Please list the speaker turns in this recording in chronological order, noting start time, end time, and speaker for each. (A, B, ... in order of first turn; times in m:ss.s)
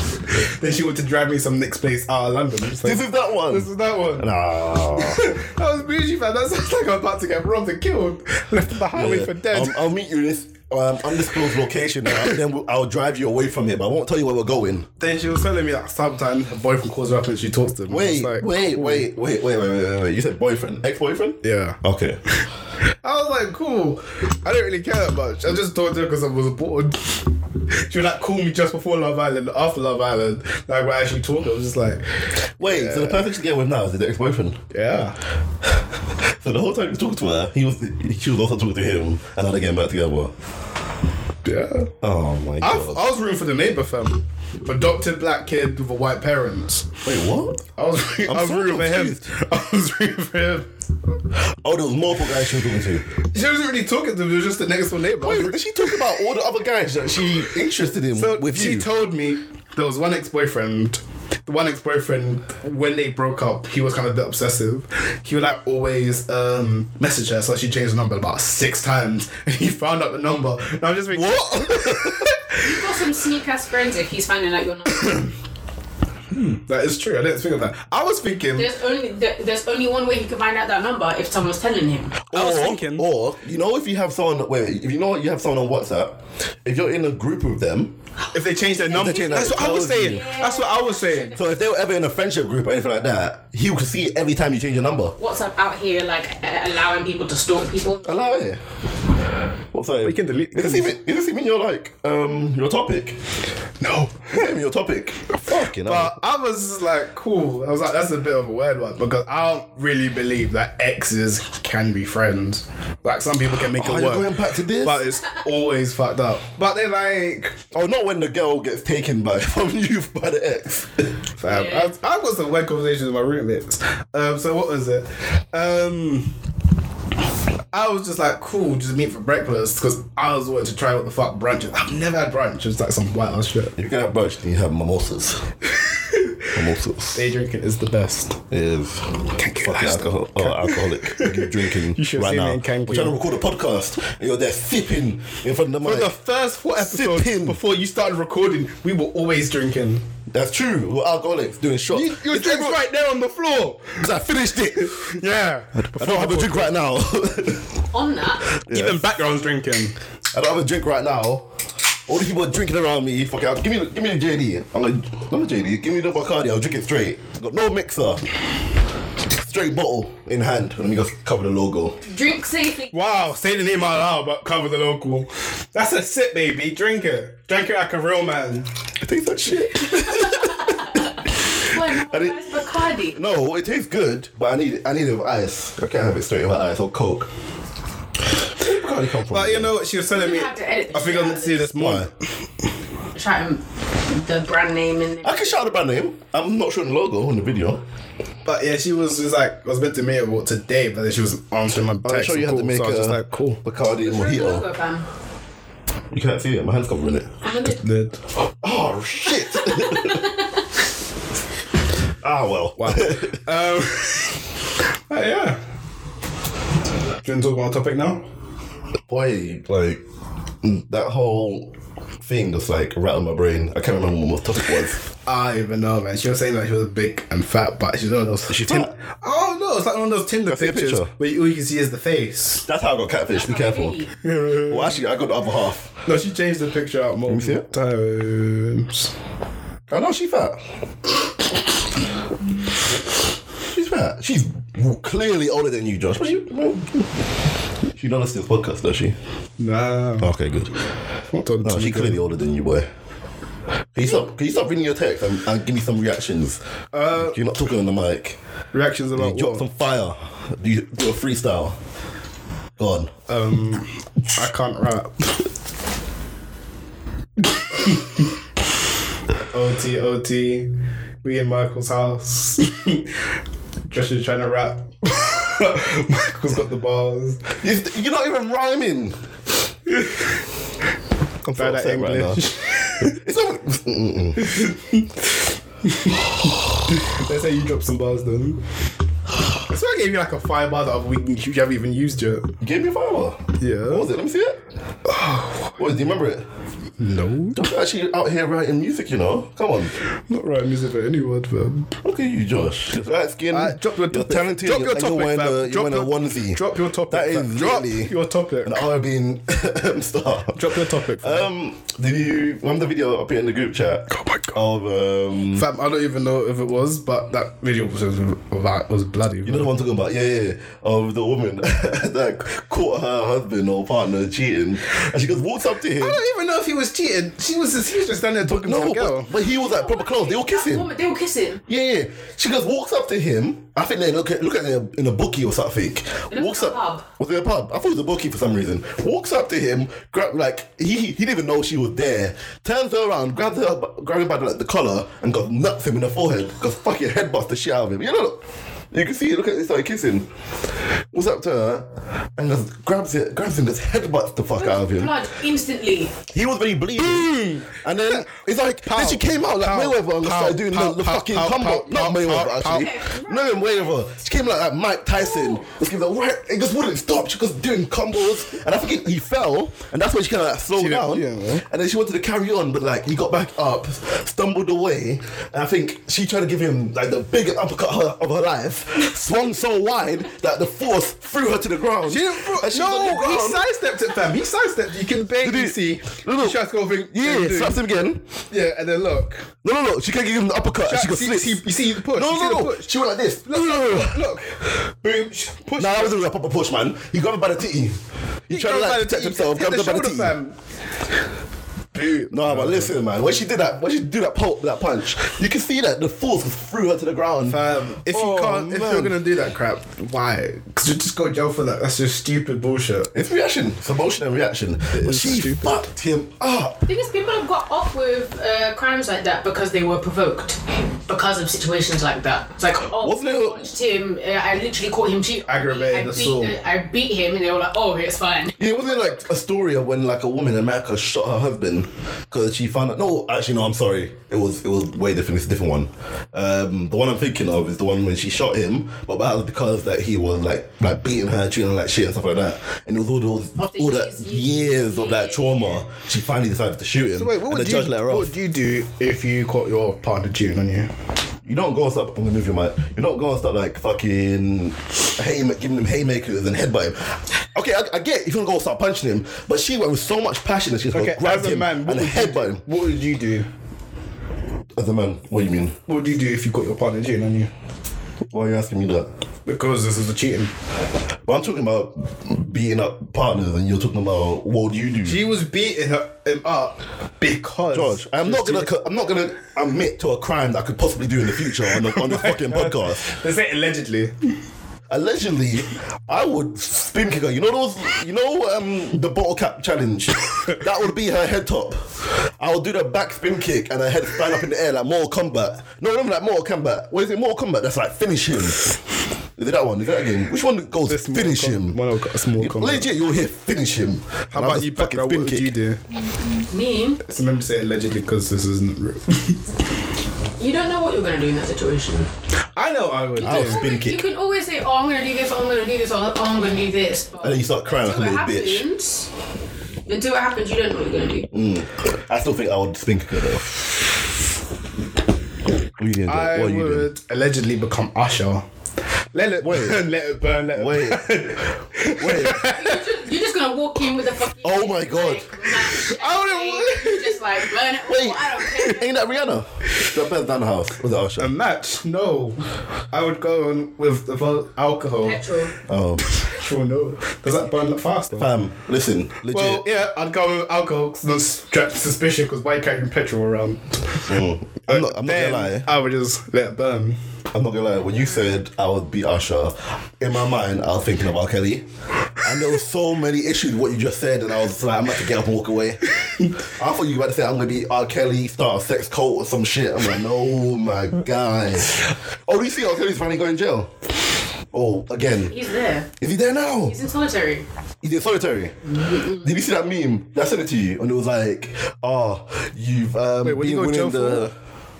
0:00.3-0:04.3 A
0:02.8-0:05.3 B
0:04.9-0:09.8 A
0:08.9-0:14.9 B
0:15.0-0:19.0 A
0:17.9-0:22.2 B
0:21.4-0:21.8 A
0:23.0-0:27.2 A
0:27.9-0:32.1 A
0:32.6-0:34.6 B
0:32.6-0:33.2 A
0:34.7-0:35.2 A
0:35.6-0:40.3 B
0:41.4-0:41.9 A
0:42.0-0:43.0 B
0:42.6-0:47.0 A
0:47.0-0:47.6 B
0:47.8-0:50.7 A
0:48.2-0:49.3 B
0:51.6-0:53.0 B
0:53.3-0:55.6 A
0:55.2-0:58.9 B
0:58.1-1:12.7 A
1:11.1-1:12.3 B
1:12.6-1:15.3 C
1:16.3-1:18.7 A
1:18.6-1:22.2 C
1:22.3-1:23.0 A
1:22.3-1:27.9 B
1:28.3-1:31.3 A
1:28.9-1:30.3 B
1:29.0-1:31.6 C
1:31.3-1:35.2 B
1:35.2-1:38.3 C
1:38.0-1:38.6 B
1:39.7-1:43.2 B
1:40.0-1:40.9 A
1:43.8-1:44.3 A
1:44.3-1:46.2 B
1:45.8-1:57.6 A
1:53.7-1:55.0 B
1:57.7-2:01.1 B
2:01.4-2:06.3 A
2:01.5-2:01.9 C
2:07.7-2:13.7 A
2:13.8-2:15.4 B
2:16.1-2:16.4 A
2:16.5-2:17.2 B
2:17.1-2:18.4 A
2:18.5-2:26.2 B
2:19.4-2:23.2 A
2:25.8-2:30.0 A
2:26.7-2:27.6 B
2:30.3-2:32.8 B
2:31.9-2:34.1 A
2:34.0-2:35.0 B
2:34.8-2:36.7 A
2:35.8-2:37.8 B
2:37.9-2:38.4 C
2:38.5-2:39.0 B
2:38.7-2:39.9 A
2:40.3-2:41.5 B
2:42.1-2:48.2 B
2:49.3-2:52.0 B
2:52.0-2:52.9 C
2:52.9-2:58.7 A
2:59.0-3:01.0 B
3:00.2-3:03.2 C
3:01.6-3:02.4 B
3:03.1-3:07.3 B
3:08.6-3:09.7 B
3:09.3-3:12.1 A
3:10.1-3:11.7 C
3:11.8-3:12.1 B
3:13.1-3:15.6 C
3:15.2-3:17.8 B
3:18.4-3:23.6 A
3:22.0-3:24.6 B
3:24.0-3:25.1 C
3:26.1-3:27.3 B
3:27.4-3:27.8 C
3:27.6-3:28.2 A
3:28.6-3:30.2 B
3:29.6-3:30.3 C
3:32.2-3:33.4 B
3:32.8-3:34.5 A
3:35.1-3:35.6 A
3:37.2-3:38.2 A
3:39.1-3:40.0 B
3:40.6-3:45.0 B
3:45.2-3:52.6 A
3:48.5-3:48.9 B
3:50.4-3:51.1 B
3:52.7-3:54.0 B
3:53.3-3:54.1 C
3:54.2-3:54.9 A
3:54.7-3:55.9 B
3:56.0-3:59.1 A
3:57.3-3:57.6 B
3:59.9-4:00.6 B
4:03.7-4:07.1 B
4:07.9-4:09.2 B
4:09.6-4:10.3 A
4:10.2-4:10.8 B
4:11.3-4:12.2 A
4:11.6-4:12.9 B
4:13.9-4:16.6 B
4:16.9-4:17.4 A
4:17.1-4:18.4 B
4:18.7-4:19.6 A
4:19.1-4:21.8 B
4:22.8-4:23.1 B
4:23.3-4:25.5 A
4:27.5-4:28.2 A
4:29.5-4:30.7 A
4:31.2-4:33.1 A
4:33.9-4:37.4 A
4:37.6-4:39.2 B
4:39.9-4:40.2 A
4:41.4-4:42.4 B
4:41.5-4:43.2 A
4:43.0-4:44.5 B
4:44.4-4:45.3 A
4:45.8-4:46.3 A
4:46.9-4:48.6 A
4:49.7-4:52.5 A
4:52.6-4:54.6 B
4:53.6-4:54.1 A
4:55.0-4:55.8 A
4:55.8-4:56.4 B
4:57.0-4:57.6 A
4:57.5-4:59.9 B
5:00.3-5:01.9 A
5:02.0-5:15.7 B
5:03.5-5:08.8 A
5:10.5-5:11.5 A
5:14.1-5:14.6 A
5:15.5-5:19.7 A
5:19.4-5:26.2 B
5:26.0-5:29.3 A
5:28.4-5:30.9 B
5:29.3-5:31.6 C
5:31.7-5:55.1 B
5:36.3-5:37.0 C
5:54.6-5:56.1 C
5:56.3-6:23.6 B
5:57.0-5:58.3 A
5:58.8-6:02.9 A
6:02.6-6:03.9 C
6:10.7-6:11.6 A
6:22.0-6:27.8 A
6:25.4-6:28.2 B
6:28.5-6:29.5 A
6:29.6-6:34.2 B
6:30.8-6:32.9 A
6:33.4-6:36.2 A
6:35.8-6:40.4 B
6:38.5-6:40.6 A
6:41.9-6:42.9 A
6:42.3-6:47.6 B
6:47.5-6:53.1 A
6:48.1-6:49.2 B
6:53.1-6:56.9 B
6:54.9-6:55.7 A
6:56.9-7:09.0 C
7:03.0-7:03.7 B
7:05.5-7:06.6 A
7:08.6-7:28.3 B
7:23.6-7:25.6 C
7:27.2-7:30.9 A
7:31.4-7:42.6 B
7:40.9-7:43.5 A
7:44.7-7:45.8 B
7:45.9-7:47.5 A
7:48.3-7:49.1 B
7:49.4-7:50.5 A
7:51.2-7:55.2 B
7:55.0-7:58.7 A
7:57.7-8:03.1 B
8:01.8-8:04.1 A
8:04.9-8:18.7 B
8:19.4-8:21.8 B
8:20.9-8:22.9 A
8:22.4-8:25.5 B
8:24.3-8:25.8 A
8:26.5-8:27.0 C
8:27.0-8:29.4 A
8:30.4-8:32.1 C
8:32.6-8:33.6 A
8:33.2-8:39.1 C
8:33.2-8:34.0 B
8:37.2-8:38.6 B
8:39.9-8:41.3 C
8:41.3-8:43.6 B
8:45.8-8:46.9 B
8:46.1-8:48.4 A
8:49.1-8:52.8 A
8:49.4-8:49.8 B
8:50.5-8:51.2 B
8:51.8-8:52.4 B
8:52.3-8:58.9 C
8:54.4-8:55.2 B
8:55.7-8:57.2 A
8:57.8-9:01.3 B
9:01.2-9:05.2 A
9:05.0-9:05.6 C
9:05.7-9:06.0 B
9:06.1-9:08.3 A
9:08.2-9:09.6 B
9:09.3-9:14.1 A
9:14.1-9:15.7 B
9:14.7-9:17.0 A
9:17.3-9:21.6 B
9:22.2-9:25.8 B
9:26.6-9:33.7 B
9:34.5-9:35.4 B
9:35.3-9:35.9 C
9:36.0-9:36.8 B
9:36.6-9:37.4 C
9:37.8-9:44.3 B
9:38.7-9:39.2 C
9:43.2-9:44.3 A